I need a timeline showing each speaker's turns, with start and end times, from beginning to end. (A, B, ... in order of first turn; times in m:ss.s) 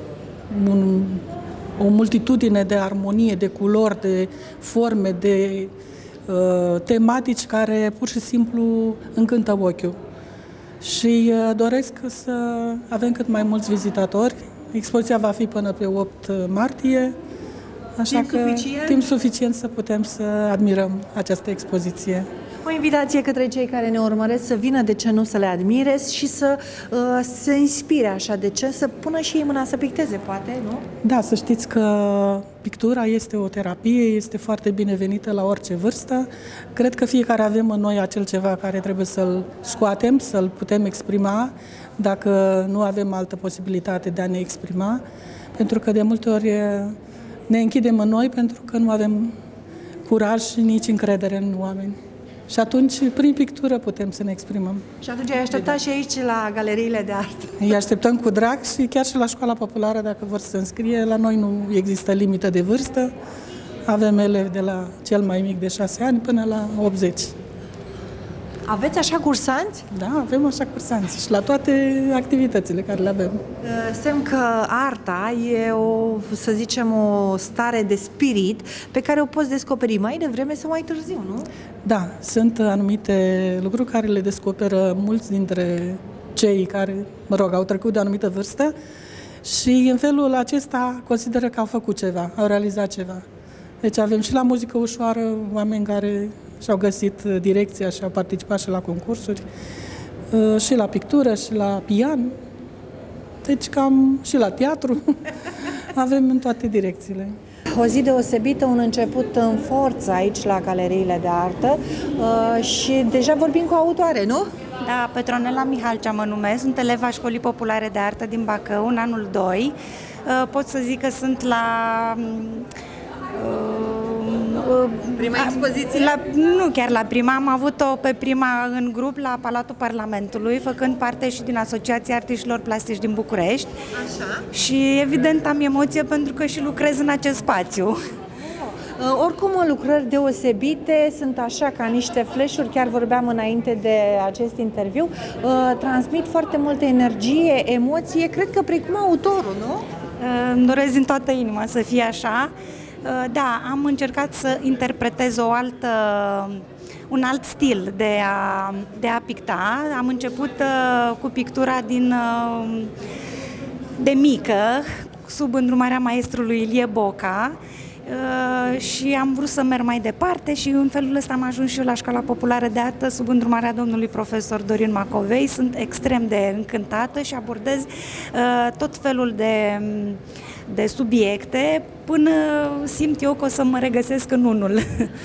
0:00.5-0:01.2 A
0:01.8-0:05.7 A
0:06.3-0:10.0 A
0:10.8-0:17.2 A
0:18.0-0:22.3 A
0:18.1-0:19.0 B
0:22.6-0:30.9 B
0:31.0-0:45.0 A
0:45.6-0:47.0 A
0:47.5-0:49.4 A
0:50.1-0:52.0 A
0:52.5-0:54.8 A
0:55.0-0:57.6 B
0:57.6-1:03.1 A
1:03.9-1:07.3 A
1:08.7-1:09.8 B
1:09.9-1:13.4 A
1:13.6-1:21.5 B
1:21.8-1:28.8 A
1:29.4-1:33.2 A
1:33.8-1:39.5 A
1:40.3-1:42.3 A
1:43.4-1:45.2 A
1:45.9-1:47.4 A
1:47.7-1:54.5 B
1:54.8-1:59.8 C
2:00.3-2:02.7 C
2:03.3-2:13.7 C
2:05.2-2:06.1 B
2:13.9-2:14.4 B
2:14.5-2:18.0 C
2:18.9-2:29.8 B
2:30.2-2:32.5 C
2:33.0-2:42.9 C
2:44.0-3:05.1 C